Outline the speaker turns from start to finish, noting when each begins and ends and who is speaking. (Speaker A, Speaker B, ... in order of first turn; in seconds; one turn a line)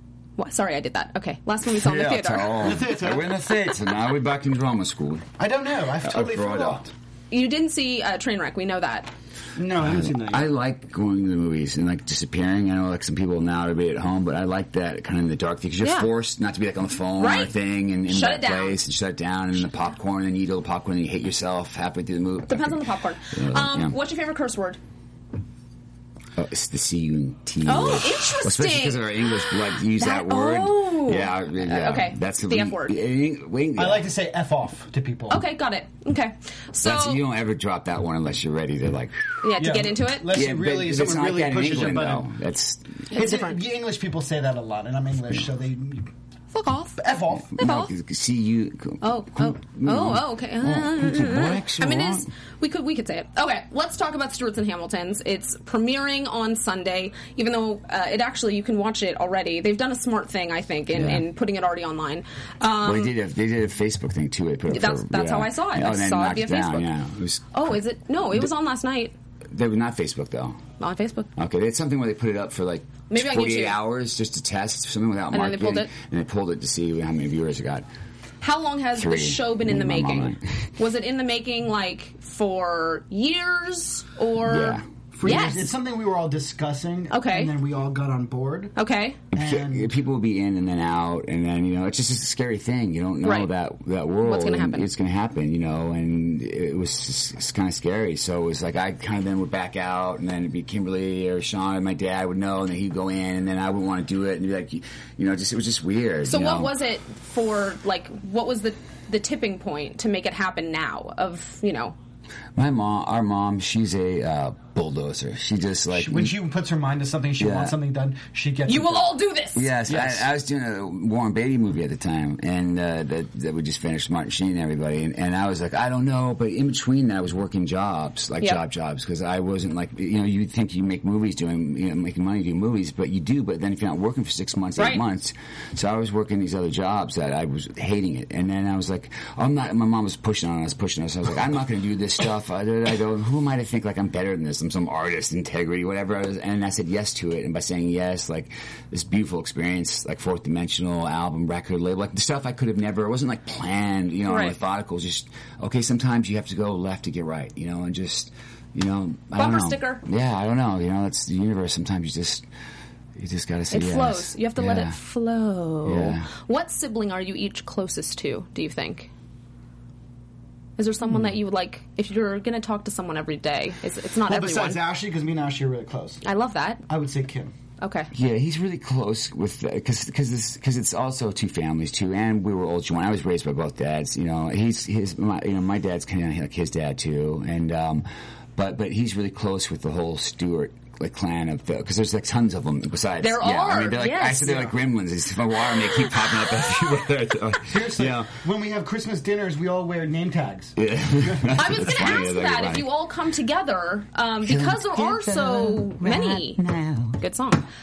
Speaker A: 0.4-2.7
Speaker B: 1.7-5.3
Speaker C: 2.6-3.4
Speaker C: 5.4-6.9
Speaker B: 6.0-6.9
Speaker A: 7.3-9.1
Speaker C: 9.6-10.5
Speaker B: 9.8-24.0
Speaker A: 15.8-16.1
Speaker A: 17.2-17.5
Speaker A: 18.1-18.8
Speaker A: 22.5-24.8
Speaker B: 26.4-34.1
Speaker A: 27.6-33.0
Speaker C: 33.8-35.4
Speaker A: 35.3-37.2
Speaker B: 36.8-39.5
Speaker A: 39.4-40.3
Speaker C: 39.6-42.3
Speaker B: 40.3-43.1
Speaker A: 43.1-43.6
Speaker C: 43.1-46.1
Speaker A: 46.5-47.0
Speaker C: 47.0-47.6
Speaker B: 47.4-52.3
Speaker A: 47.6-47.9
Speaker A: 49.0-63.1
Speaker B: 60.9-61.3
Speaker B: 62.8-67.8
Speaker A: 64.7-66.9
Speaker A: 67.5-69.1
Speaker B: 69.5-70.6
Speaker A: 70.8-71.3
Speaker B: 71.4-77.9
Speaker A: 73.1-73.8
Speaker A: 75.3-75.9
Speaker A: 78.4-85.7
Speaker B: 78.9-80.7
Speaker B: 84.4-84.9
Speaker C: 85.1-88.8
Speaker A: 87.1-87.5
Speaker A: 88.8-89.2
Speaker C: 89.3-89.9
Speaker B: 89.3-106.7
Speaker A: 93.2-93.5
Speaker A: 94.2-94.9
Speaker A: 106.3-112.0
Speaker B: 112.5-116.4
Speaker C: 115.9-119.2
Speaker B: 117.4-117.8
Speaker A: 118.7-119.7
Speaker B: 119.5-162.5
Speaker C: 119.9-120.3
Speaker A: 134.8-135.0
Speaker A: 154.3-154.6
Speaker A: 159.3-160.0
Speaker B: 163.2-165.0
Speaker A: 163.7-169.1
Speaker B: 165.8-166.3
Speaker A: 170.8-174.8
Speaker C: 174.3-176.2
Speaker A: 176.2-176.8
Speaker C: 176.9-177.5
Speaker A: 177.8-178.1
Speaker B: 178.1-198.3
Speaker A: 193.2-194.7
Speaker C: 197.7-201.8
Speaker B: 200.8-202.9
Speaker A: 201.5-206.6
Speaker B: 204.4-207.2
Speaker A: 207.2-207.7